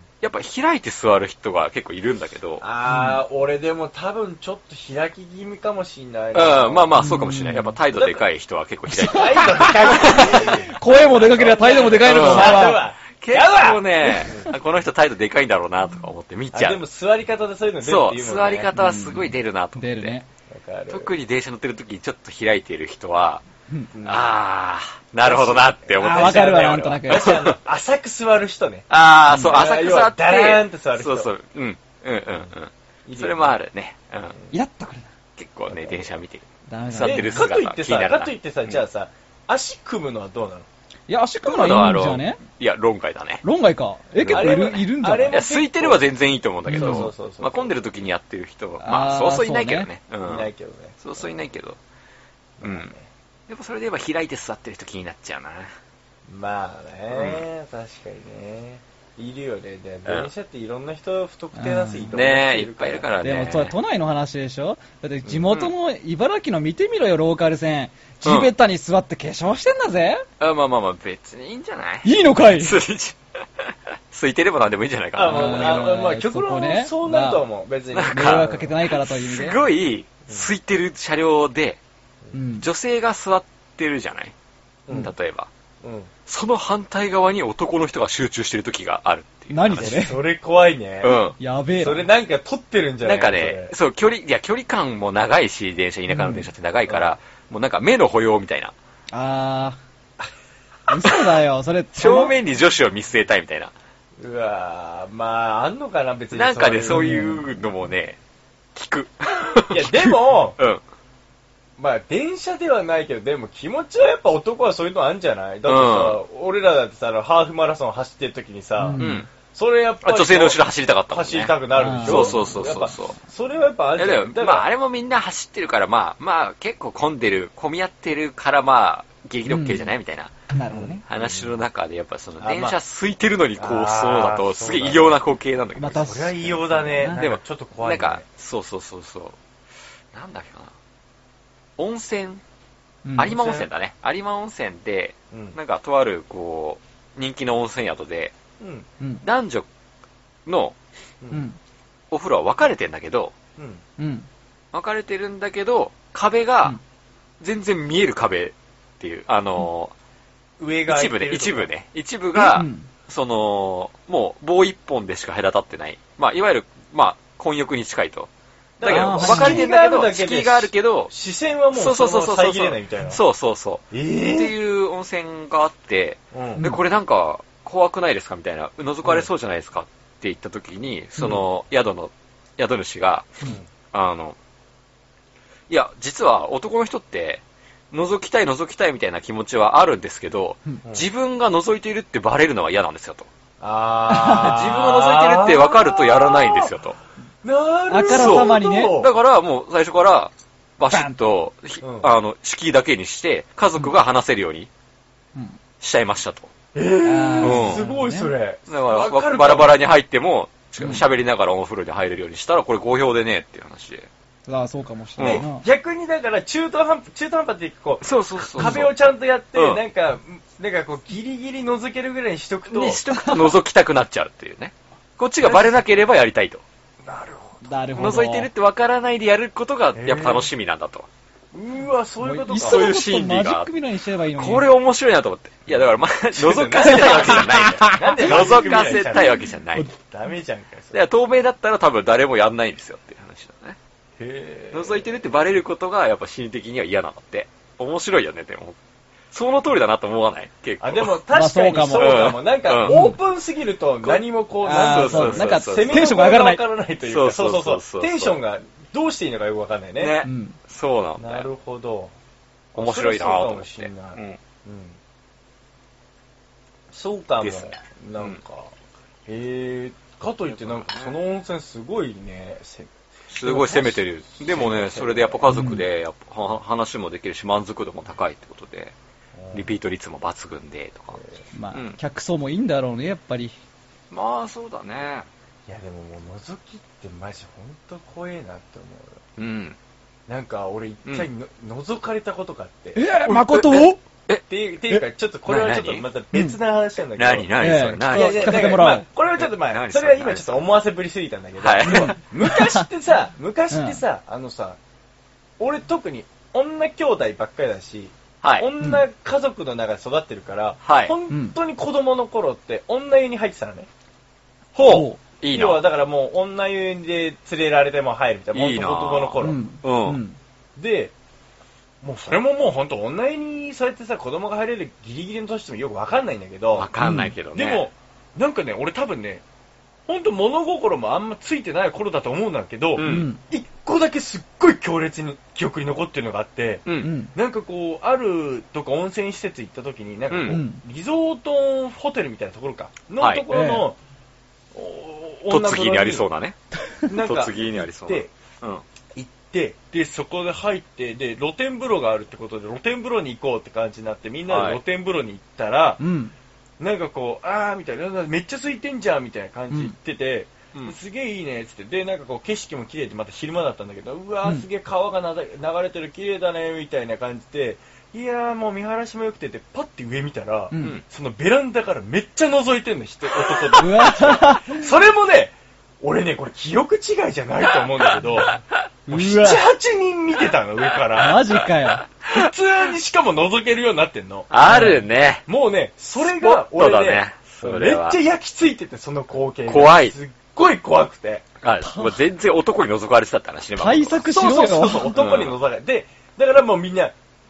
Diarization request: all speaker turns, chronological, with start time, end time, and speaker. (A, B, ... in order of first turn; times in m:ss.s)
0:00.2-0:02.6 A
0:02.6-0:07.0 B
0:02.9-0:03.2 C
0:06.3-0:10.6 A
0:07.0-0:07.8 C
0:07.9-0:08.2 B
0:08.9-0:12.8 C
0:09.0-0:14.5 B
0:12.0-0:16.8 A
0:16.5-0:18.7 B
0:17.8-0:20.2 A
0:18.7-0:20.3 C
0:20.5-0:21.1 B
0:20.9-0:23.4 A
0:23.9-0:24.3 B
0:24.0-0:27.6 A
0:25.2-0:28.9 B
0:26.0-0:27.4 C
0:28.9-0:34.4 A
0:29.3-0:29.6 C
0:29.4-0:31.3 B
0:33.1-0:33.6 B
0:34.5-0:35.1 C
0:35.4-0:38.8 A
0:35.7-0:36.1 B
0:36.7-0:37.5 C
0:37.0-0:40.7 B
0:41.1-0:42.4 C
0:41.4-0:43.4 A
0:43.4-0:45.4 C
0:44.2-0:46.0 B
0:44.2-0:50.5 A
0:46.7-0:47.1 C
0:46.7-0:47.8 B
0:48.8-0:49.9 C
0:50.2-0:51.3 B
0:51.0-0:51.8 A
0:52.6-0:53.1 B
0:52.6-0:52.9 A
0:53.5-0:55.7 A
0:56.3-1:03.1 B
0:57.1-0:57.5 A
1:00.1-1:00.3 A
1:01.6-1:02.1 C
1:02.1-1:03.8 A
1:03.2-1:10.3 C
1:08.2-1:08.5 A
1:10.4-1:15.9 A
1:12.0-1:12.8 C
1:15.1-1:18.7 B
1:15.2-1:17.5 C
1:17.9-1:21.8 A
1:18.1-1:19.7 C
1:22.3-1:22.7 C
1:22.6-1:24.3 A
1:24.9-1:25.1 B
1:24.9-1:25.5 A
1:25.8-1:26.1 B
1:26.3-1:30.0 A
1:29.5-1:30.2 C
1:29.8-1:31.2 B
1:31.0-1:31.4 A
1:31.4-1:32.1 C
1:31.8-1:33.7 B
1:33.0-1:38.7 A
1:36.1-1:36.5 C
1:36.9-1:37.2 B
1:39.1-1:39.8 C
1:40.9-1:42.4 C
1:42.0-1:43.7 A
1:44.2-1:47.4 B
1:46.3-1:48.2 A
1:46.9-1:47.4 C
1:48.8-1:50.8 A
1:49.7-1:50.6 B
1:51.8-2:04.7 B
1:55.6-1:56.2 A
1:58.8-1:59.2 C
1:59.0-1:59.3 A
2:00.0-2:03.2 A
2:01.8-2:02.4 C
2:04.0-2:10.3 A
2:09.5-2:09.9 C
2:10.5-2:11.0 C
2:10.7-2:11.6 B
2:11.1-2:16.2 A
2:12.4-2:12.8 B
2:13.6-2:15.2 B
2:15.8-2:17.3 C
2:16.0-2:18.2 B
2:17.2-2:19.4 A
2:20.1-2:20.7 A
2:21.8-2:22.4 A
2:23.0-2:23.4 C
2:23.2-2:28.3 A
2:23.3-2:23.7 B
2:28.6-2:28.9 B
2:29.2-2:29.7 A
2:30.4-2:30.8 A
2:31.3-2:31.6 C
2:32.1-2:33.3 A
2:33.6-2:33.8 B
2:34.0-2:34.3 C
2:34.7-2:36.8 A
2:37.4-2:39.9 A
2:40.6-2:41.7 B
2:40.9-2:48.3 A
2:42.3-2:42.9 C
2:48.8-2:53.2 B
2:48.8-2:51.1 A
2:48.9-2:49.7 C
2:51.7-3:03.3 A
2:53.9-2:54.5 B
2:56.3-2:56.7 B
3:03.9-3:04.4 A
3:05.7-3:13.3 A
3:13.6-3:16.7 B
3:14.1-3:14.6 C
3:14.3-3:17.0 A
3:17.4-3:19.1 B
3:17.9-3:19.0 C
3:18.0-3:24.7 A
3:20.9-3:21.2 C
3:21.8-3:22.1 B
3:25.8-3:26.5 A
3:26.7-3:29.8 B
3:27.0-3:28.3 C
3:27.4-3:27.8 A
3:28.7-3:34.1 A
3:30.8-3:31.0 C
3:34.5-3:35.6 C
3:35.2-3:35.4 A
3:35.2-3:43.0 B
3:38.0-3:39.8 A
3:42.7-3:46.6 A
3:43.1-3:43.5 C
3:45.4-3:45.8 B
3:47.0-3:47.7 B
3:47.6-3:48.5 C
3:47.9-3:51.1 A
3:49.9-3:50.5 B
3:51.5-3:52.9 B
3:52.2-3:54.7 C
3:52.6-3:53.7 A
3:54.4-3:59.9 A
3:55.7-3:59.4 B
3:56.8-3:59.9 C
3:59.9-4:01.0 B
4:00.9-4:03.8 A
4:04.2-4:05.1 B
4:04.7-4:08.8 A
4:09.3-4:11.2 A
4:10.8-4:20.2 B
4:11.3-4:13.2 C
4:12.0-4:13.0 A
4:14.0-4:16.0 A
4:14.6-4:16.6 C
4:17.0-4:18.4 A
4:20.0-4:21.5 A
4:20.2-4:20.6 C
4:21.2-4:22.1 B
4:22.7-4:24.4 A
4:22.8-4:25.0 B
4:26.9-4:28.7 B
4:27.4-4:28.4 A
4:29.3-4:32.9 B
4:30.5-4:31.1 A
4:33.3-4:38.9 A
4:33.4-4:35.5 B
4:35.5-4:35.8 C
4:39.4-4:39.7 B
4:39.5-4:41.2 A
4:41.1-4:41.4 B
4:41.5-4:43.6 C
4:41.7-4:42.0 A
4:44.1-4:45.3 A
4:45.7-4:49.2 B
4:49.4-4:49.8 A
4:50.3-4:53.1 B
4:53.0-4:54.0 C
4:53.2-4:54.4 A
4:54.5-5:04.8 B
4:55.5-4:56.1 A
4:57.2-5:00.7 A
4:57.6-4:59.1 C
5:01.6-5:02.2 A
5:01.9-5:02.9 C
5:03.7-5:04.0 C
5:05.6-5:13.9 B
5:08.4-5:08.7 A
5:08.8-5:09.0 C
5:10.8-5:11.2 A
5:11.3-5:11.6 C
5:14.8-5:15.8 A
5:14.9-5:15.2 C
5:15.5-5:19.6 B
5:18.5-5:20.2 A
5:19.4-5:20.4 C
5:20.8-5:21.1 B
5:22.0-5:26.9 B
5:26.8-5:27.9 A
5:27.0-5:27.3 C
5:27.5-5:29.4 B
5:30.1-5:44.0 B
5:33.0-5:33.3 A
5:33.0-5:33.4 C
5:36.9-5:37.1 A
5:37.0-5:37.3 C
5:40.3-5:40.6 A
5:40.5-5:40.8 C
5:43.2-5:43.4 A
5:43.5-5:43.9 C
5:44.7-5:46.2 B
5:45.5-5:46.6 A
5:47.1-5:48.3 B
5:47.1-5:48.8 A
5:49.2-5:56.0 B
5:54.5-5:54.8 A
5:56.0-5:56.3 C
5:56.8-6:21.6 B
6:10.7-6:11.0 C
6:13.8-6:14.9 C
6:19.1-6:19.6 C
6:21.1-6:22.1 C
6:22.0-6:22.5 A
6:22.3-6:24.5 B
6:24.5-6:25.4 A
6:24.6-6:25.0 C
6:25.5-6:31.4 B
6:26.2-6:28.2 A
6:29.7-6:30.2 A
6:31.6-6:34.3 A
6:31.8-6:32.2 C
6:33.8-6:35.2 C
6:34.2-6:37.1 B
6:35.2-6:35.6 A